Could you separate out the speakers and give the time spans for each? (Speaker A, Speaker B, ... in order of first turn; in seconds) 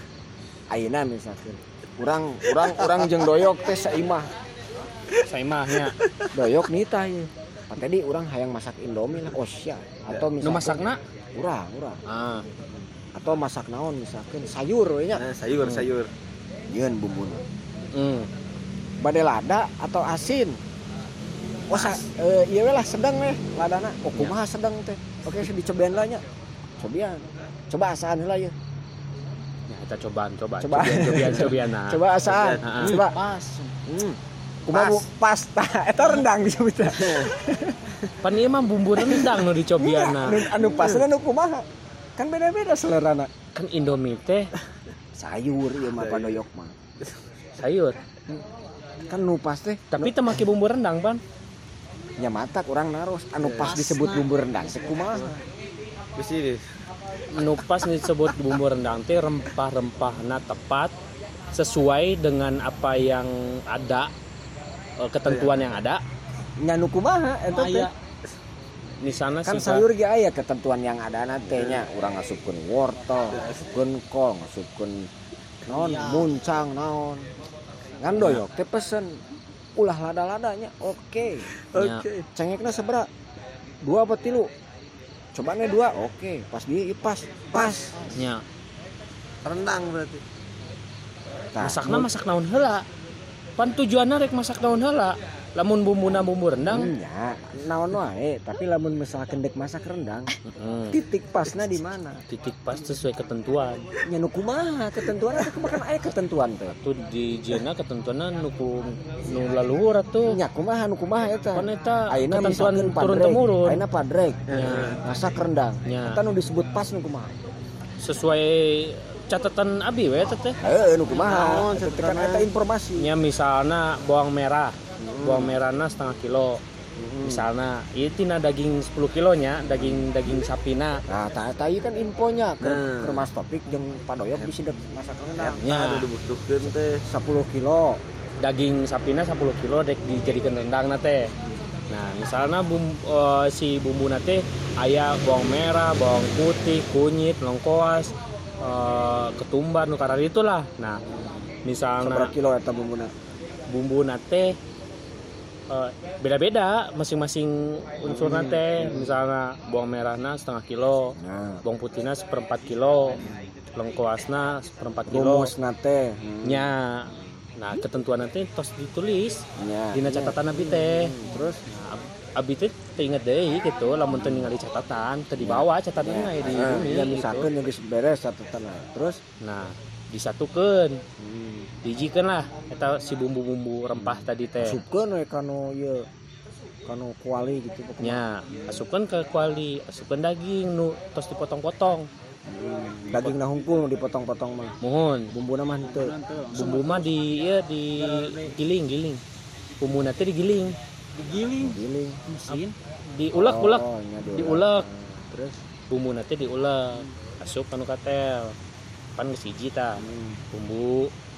Speaker A: 0.7-4.3, 6.3-12.0, 13.2-15.2, 16.7-17.4, 19.0-20.6, 21.7-26.2, 26.8-28.6, 30.6-33.2, 33.9-38.0, 39.8-43.3, 45.1-46.8, 49.1-50.3, 52.2-55.4, 66.6-67.9, 69.5-75.1, 75.7-77.3, 78.0-79.2, 79.8-81.5, 82.3-83.1, 83.8-84.5, 85.3-88.1, 91.5-92.1, 96.6-100.3, 100.9-102.2, 104.0-106.8, 110.3-117.3, 120.6-123.1, 125.0-125.6, 127.0-127.4, 129.7-130.1, 131.1-135.6, 137.1-138.0, 152.0-153.1, 158.1-159.1, 161.2-161.6, 165.1-166.7, 169.6-171.6, 174.1-174.5, 175.4-179.2, 181.2-181.7, 184.0-186.1, 186.9-188.8, 192.5-194.7, 195.3-196.1, 201.6-202.2, 203.3-205.6, 210.0-210.4
Speaker B: 2.7-3.1, 5.9-6.3, 15.1-16.1, 21.7-22.0, 32.2-33.0, 34.7-35.0, 37.0-37.3, 40.6-41.0, 45.9-46.4, 53.4-53.8, 54.7-55.4, 56.2-56.6, 57.5-57.9, 65.3-65.7, 71.5-71.8, 73.3-73.7, 81.6-82.3, 87.5-88.1, 89.5-90.2, 114.5-115.0, 121.1-122.5, 132.6-133.2, 135.5-137.0
Speaker C: 5.2-6.0, 10.4-11.0, 12.1-12.5, 15.6-15.9, 17.9-18.3, 29.7-32.0, 32.6-33.0, 38.2-40.5, 43.5-44.5, 47.6-48.0, 49.9-51.2, 57.3-60.9, 61.5-64.1, 65.0-66.0, 69.0-69.8, 78.2-78.4, 81.8-82.0, 88.1-88.4, 91.6-92.8, 93.6-96.9, 100.5-101.0, 102.3-103.8, 106.8-110.4, 111.5-113.8, 114.5-115.0, 115.8-116.2, 118.0-120.6, 123.0-126.6, 127.2-131.0, 135.4-136.1, 138.4-141.3, 141.9-151.0, 151.7-152.3, 153.7-154.6, 155.7-163.2, 163.7-165.5, 166.4-169.4, 169.9-171.1, 171.7-177.5, 179.4-181.0, 181.8-184.8, 188.0-192.1, 194.8-195.3, 196.5-199.2, 199.8-200.8, 203.1-204.9, 205.9-208.6, 209.2-211.1
Speaker D: 32.9-33.7, 53.6-54.3, 67.5-67.9, 75.7-76.3, 195.8-197.1, 198.0-198.6, 201.2-202.8